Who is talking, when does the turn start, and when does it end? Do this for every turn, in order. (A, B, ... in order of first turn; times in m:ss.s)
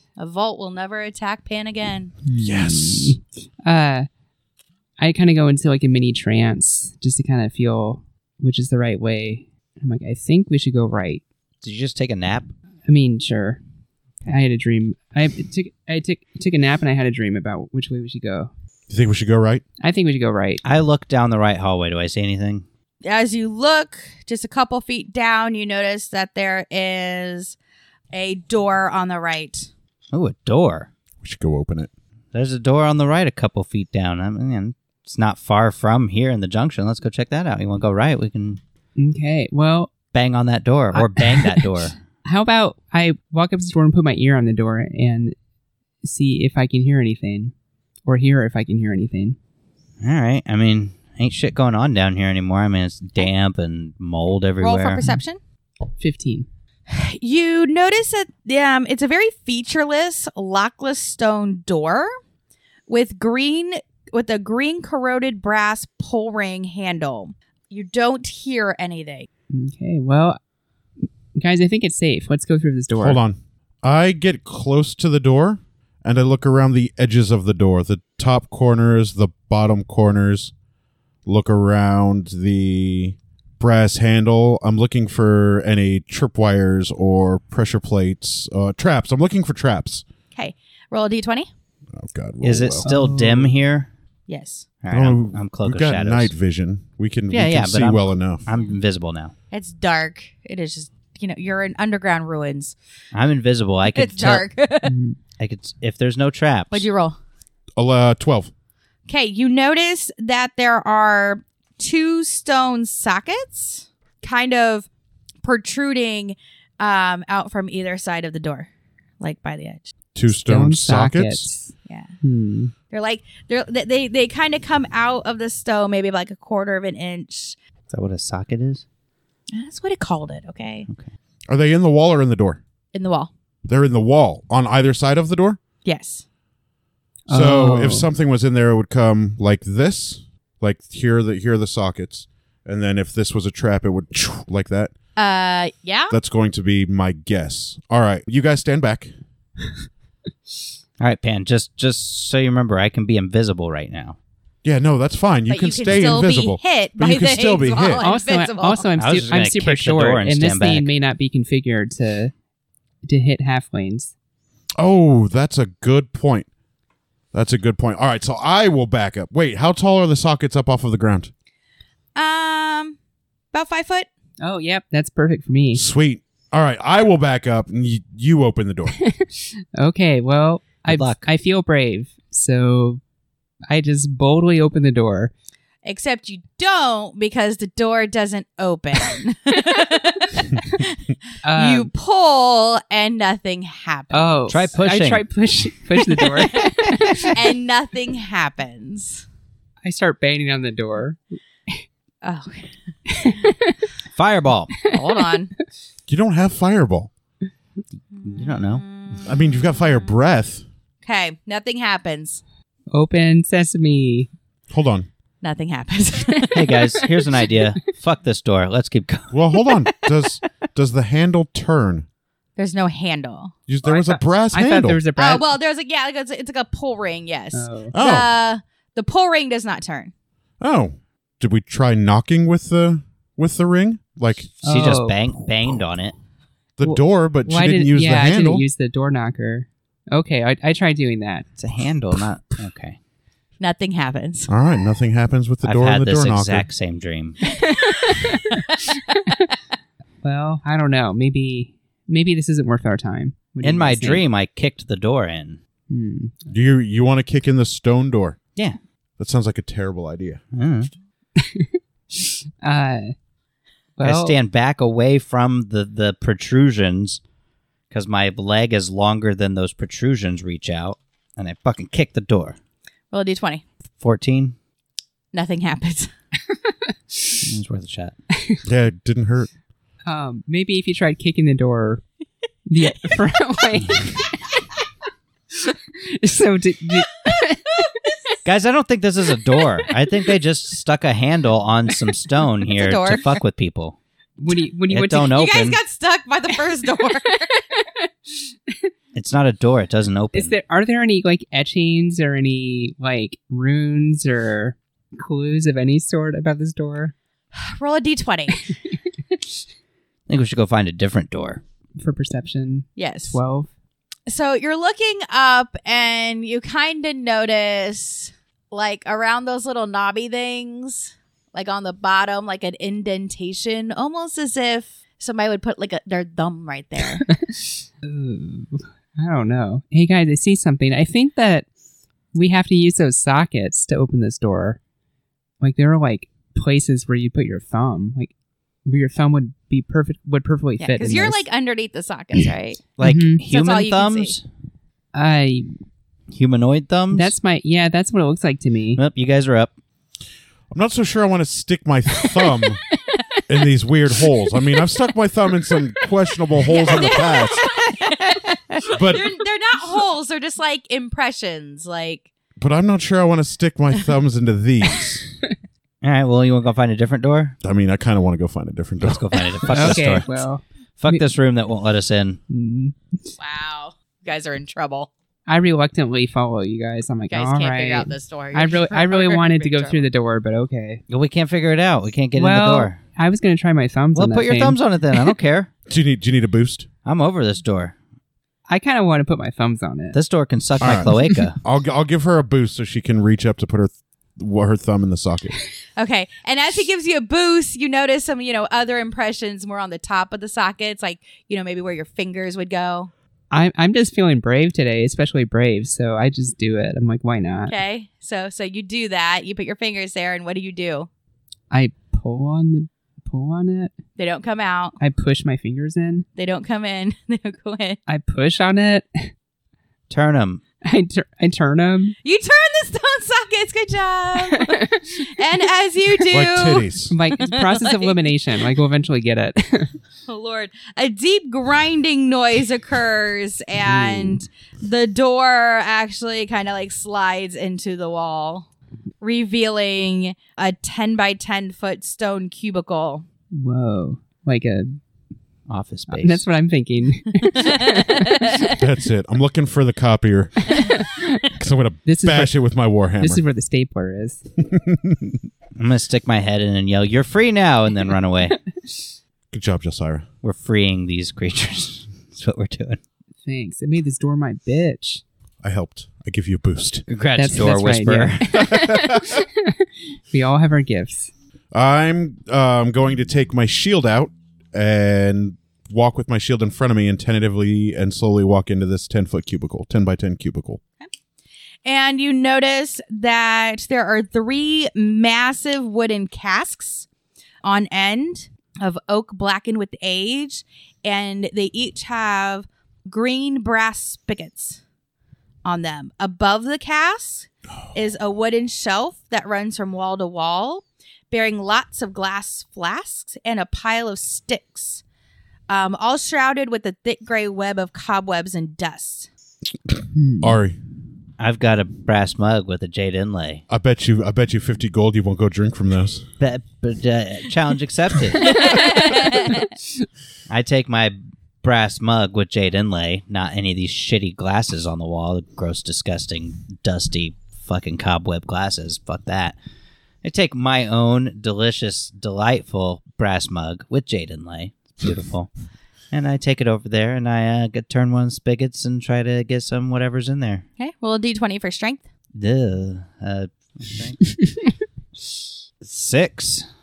0:00.2-0:02.1 A
0:02.2-0:04.1 B
0:02.4-0:03.2 C
0:05.0-0:11.2 B
0:11.6-0:12.5 D
0:12.8-0:13.6 B
0:14.2-0:18.5 B
0:18.9-0:19.6 C
0:19.8-0:20.6 B
0:20.6-0:22.6 D
0:23.0-0:27.6 A
0:28.1-0:29.7 A
0:30.1-0:30.9 D
0:31.2-0:31.9 C
0:32.3-0:38.6 D
0:39.0-0:39.9 B
0:40.1-0:42.0 D
0:40.9-0:45.4 B
0:46.0-0:47.5 B
0:48.0-0:49.4 B
0:50.0-0:55.0 D
0:54.6-0:55.4 A
0:56.0-0:56.5 B
0:56.9-1:02.1 A
1:02.9-1:09.3 A
1:09.5-1:10.4 B
1:11.3-1:13.2 B
1:12.9-1:20.5 C
1:21.2-1:30.0 C
1:30.3-1:31.5 A
1:31.9-1:32.9 C
1:32.4-1:33.9 D
1:32.8-1:33.5 B
1:34.3-1:34.6 A
1:34.8-1:36.3 D
1:34.9-1:38.4 C
1:37.3-1:39.3 D
1:39.5-1:42.8 A
1:43.1-1:44.5 D
1:43.9-1:45.0 A
1:44.8-1:45.2 B
1:45.4-1:46.9 D
1:46.7-1:47.2 A
1:47.8-1:48.5 C
1:49.1-1:54.9 A
1:55.4-1:58.7 A
1:59.2-1:59.9 A
2:00.1-2:01.5 C
2:00.3-2:02.7 B
2:01.8-2:02.1 A
2:02.9-2:07.6 A
2:07.9-2:08.8 D
2:09.5-2:10.9 A
2:11.5-2:12.6 C
2:12.9-2:13.3 A
2:13.7-2:15.6 C
2:15.8-2:16.2 A
2:17.3-2:18.1 B
2:17.3-2:24.9 C
2:25.2-2:26.2 A
2:26.1-2:29.1 C
2:31.0-2:34.2 D
2:34.6-2:38.0 C
2:35.5-2:38.9 A
2:38.0-2:42.3 B
2:39.0-2:40.9 D
2:43.0-2:44.1 B
2:44.8-2:46.5 C
2:47.3-2:51.3 C
2:52.2-2:53.0 A
2:53.5-2:54.1 A
2:54.4-2:55.8 B
2:55.7-2:59.0 C
2:59.0-3:03.0 B
3:00.9-3:01.3 D
3:03.7-3:05.3 B
3:05.8-3:11.0 A
3:11.4-3:11.9 B
3:11.5-3:14.4 A
3:14.1-3:17.4 B
3:14.5-3:15.2 D
3:16.5-3:19.2 A
3:19.8-3:21.2 B
3:22.2-3:22.7 A
3:23.1-3:23.8 B
3:24.1-3:24.7 D
3:24.9-3:25.5 A
3:24.9-3:25.3 B
3:26.1-3:27.1 C
3:28.2-3:28.8 D
3:28.2-3:29.4 A
3:29.2-3:30.6 C
3:31.0-3:32.4 A
3:32.9-3:34.3 B
3:34.7-3:35.1 C
3:35.4-3:36.9 A
3:36.5-3:39.4 D
3:39.3-3:42.0 C
3:42.6-3:43.5 A
3:43.7-3:45.0 C
3:43.8-3:45.5 B
3:45.2-3:50.1 A
3:47.5-3:47.9 B
3:47.9-3:48.3 C
3:50.6-3:54.5 C
3:54.6-3:56.1 D
3:54.6-3:55.2 B
3:56.8-3:58.6 C
3:56.8-4:01.5 B
4:01.6-4:03.0 D
4:03.6-4:04.5 A
4:04.5-4:06.7 C
4:05.6-4:07.4 D
4:07.9-4:08.9 A
4:10.2-4:14.2 B
4:13.6-4:15.6 D
4:15.9-4:16.5 B
4:16.5-4:18.4 C
4:19.2-4:20.4 C
4:20.5-4:20.9 D
4:21.4-4:23.1 B
4:24.0-4:24.4 B
4:24.0-4:27.2 D
4:27.9-4:32.6 D
4:33.1-4:33.6 A
4:34.0-4:34.6 D
4:35.3-4:36.1 A
4:37.4-4:38.1 D
4:38.6-4:39.5 C
4:40.0-4:42.0 B
4:42.6-4:44.6 B
4:45.6-4:47.8 B
4:48.4-4:54.0 D
4:52.7-4:53.3 A
4:54.4-4:55.4 B
4:54.9-4:55.8 D
4:55.2-4:57.6 A
4:57.7-4:58.1 B
4:59.1-5:00.5 D
5:00.3-5:07.1 B
5:07.5-5:08.6 A
5:10.3-5:11.6 D
5:12.0-5:13.7 B
5:13.0-5:13.4 A
5:14.3-5:27.2 A
5:27.3-5:31.7 B
5:32.3-5:34.8 B
5:35.6-5:38.3 B
5:38.8-5:41.4 B
5:40.8-5:42.8 A
5:43.0-5:44.4 D
5:43.0-5:43.4 B
5:43.5-5:44.3 A
5:45.1-5:45.7 B
5:46.3-5:47.3 D
5:47.1-5:49.0 B
5:49.0-5:49.7 D
5:50.7-5:52.8 C
5:53.5-5:57.7 C
5:56.7-6:02.3 A
5:58.8-5:59.3 C
6:02.6-6:05.3 C
6:06.0-6:07.6 D
6:07.6-6:10.2 C
6:09.0-6:10.3 D
6:09.7-6:11.2 B
6:11.0-6:12.4 D
6:12.5-6:13.0 B
6:13.4-6:15.1 A
6:15.5-6:21.0 B
6:17.3-6:20.1 A
6:21.1-6:23.0 D
6:22.4-6:25.3 B
6:24.1-6:25.7 D
6:25.9-6:26.9 C
6:27.0-6:27.9 D
6:28.7-6:30.2 B
6:30.1-6:31.6 D
6:30.8-6:35.6 C
6:36.0-6:43.1 A
6:43.5-6:47.7 B
6:47.7-6:51.1 A
6:51.7-6:53.9 B
6:54.2-6:55.0 A
6:55.0-6:56.3 B
6:56.4-6:58.0 A
6:58.1-6:59.3 B
7:00.1-7:00.6 D
7:00.8-7:02.2 B
7:02.2-7:08.2 A
7:04.4-7:05.2 B
7:06.3-7:07.1 C
7:07.1-7:09.9 B
7:10.3-7:18.7 A
7:13.8-7:14.4 B
7:19.2-7:23.2 A
7:23.5-7:25.0 B
7:25.7-7:26.4 D
7:26.1-7:28.7 B
7:27.6-7:28.4 A
7:28.7-7:30.9 C
7:30.7-7:31.4 B
7:31.6-7:33.4 C
7:32.0-7:32.5 B
7:33.2-7:34.4 B
7:34.6-7:35.4 C
7:35.8-7:38.6 D
7:39.5-7:40.2 C
7:40.4-7:43.0 D
7:43.4-7:45.2 B
7:45.6-7:47.0 C
7:47.1-7:48.6 D
7:47.4-7:51.3 B
7:48.5-7:49.4 C
7:51.7-8:00.8 C
8:01.8-8:07.0 A
8:07.6-8:14.8 A
8:15.6-8:25.0 A
8:25.7-8:29.3 A
8:30.1-8:30.6 B
8:30.4-8:30.8 C
8:31.4-8:33.6 D
8:33.7-8:36.2 C
8:36.4-8:39.3 D
8:38.5-8:39.5 A
8:40.5-8:49.5 D
8:50.2-8:55.5 D
8:56.1-9:00.6 D
9:00.8-9:02.0 A
9:02.3-9:04.2 D
9:05.8-9:06.7 D